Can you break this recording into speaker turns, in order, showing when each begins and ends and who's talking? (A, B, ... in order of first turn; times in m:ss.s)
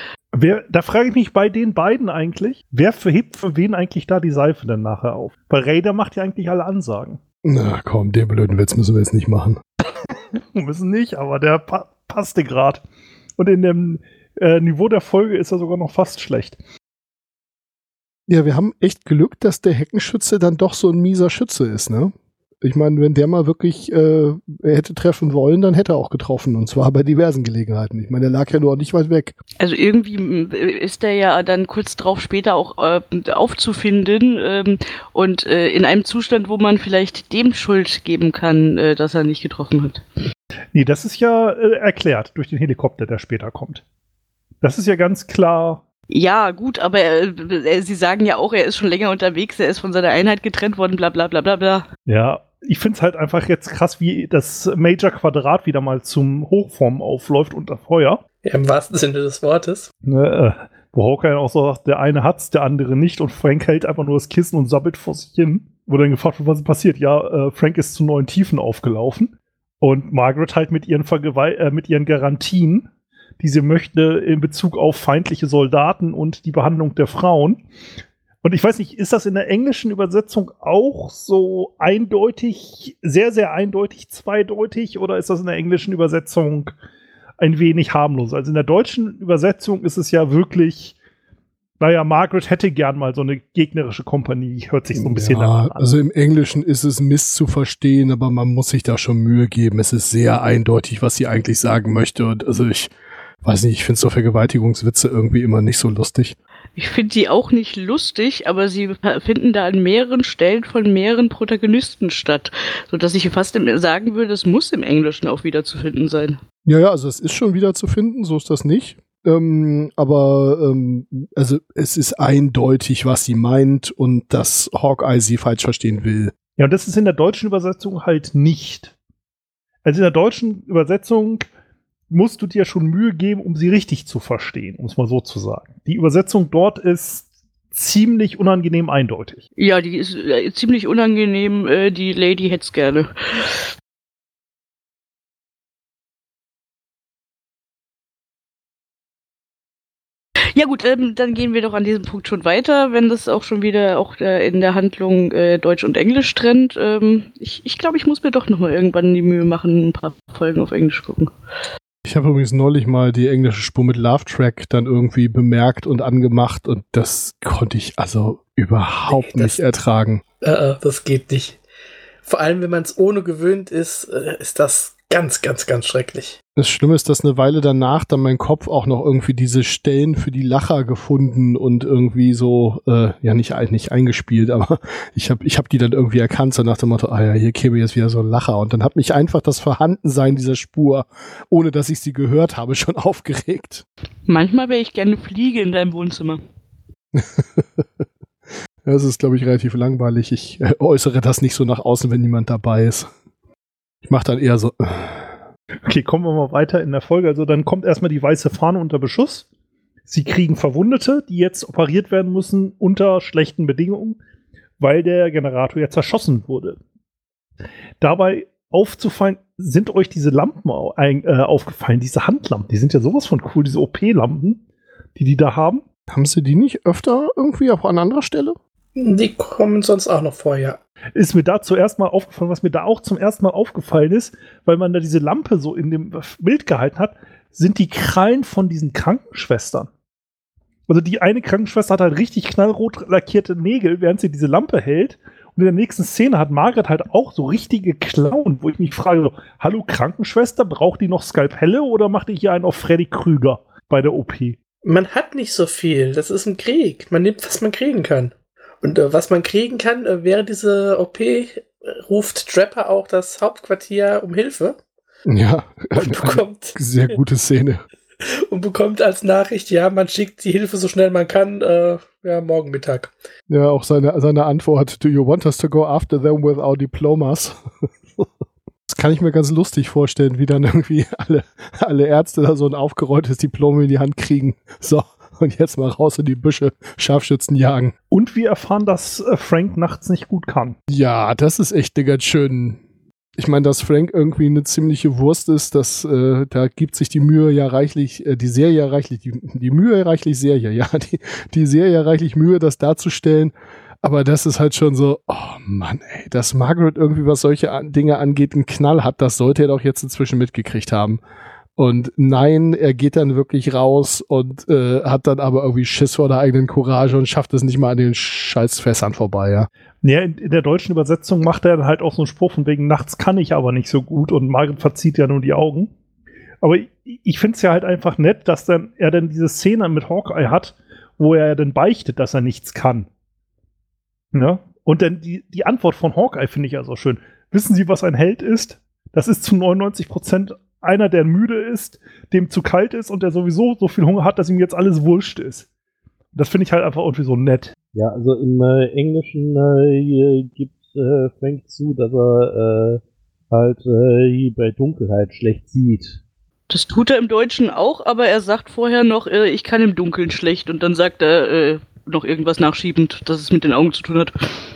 0:00.3-0:07.2 A
0:07.4-0:09.6 B
0:10.3-0:12.8 A
0:13.4-0:16.6 A
0:18.3-0:29.3 B
0:29.6-0:40.0 C
0:40.7-0:43.8 A
0:44.6-0:45.8 A
0:46.1-0:51.9 C
0:52.1-0:58.2 A
0:58.4-0:59.9 D
1:00.1-1:12.9 A
1:13.4-1:17.6 A
1:18.4-1:26.7 A
1:27.4-1:31.0 A
1:31.8-1:35.9 A
1:35.0-1:42.9 B
1:43.4-1:46.4 B
1:46.8-1:56.4 C
1:56.6-2:06.3 B
2:06.6-2:08.9 A
2:09.8-2:11.5 A
2:12.1-2:19.4 A
2:19.6-2:23.7 C
2:30.5-2:41.3 C
2:42.0-2:50.2 B
2:49.1-2:49.6 D
2:50.4-2:51.6 D
2:52.2-2:56.4 D
2:56.6-3:13.8 B
3:14.2-3:16.4 C
3:17.1-3:18.0 B
3:18.8-3:23.1 B
3:24.0-3:25.3 B
3:25.8-3:29.4 A
3:30.1-3:34.2 A
3:34.8-3:36.8 A
3:38.0-3:44.6 A
3:45.2-3:45.8 A
3:46.1-3:48.6 B
3:49.0-3:50.8 D
3:51.2-3:59.9 A
4:00.9-4:14.6 A
4:14.8-4:24.8 D
4:25.2-4:27.8 B
4:25.9-4:26.8 D
4:28.2-4:33.1 D
4:33.5-4:38.3 B
4:38.9-4:47.9 B
4:48.1-4:50.8 A
4:50.9-4:52.8 B
4:53.4-5:11.2 B
5:11.8-5:19.7 B
5:20.0-5:25.9 A
5:26.6-5:33.1 A
5:34.3-5:45.7 A
5:46.3-5:47.7 A
5:47.9-5:56.2 E
5:56.7-6:04.3 C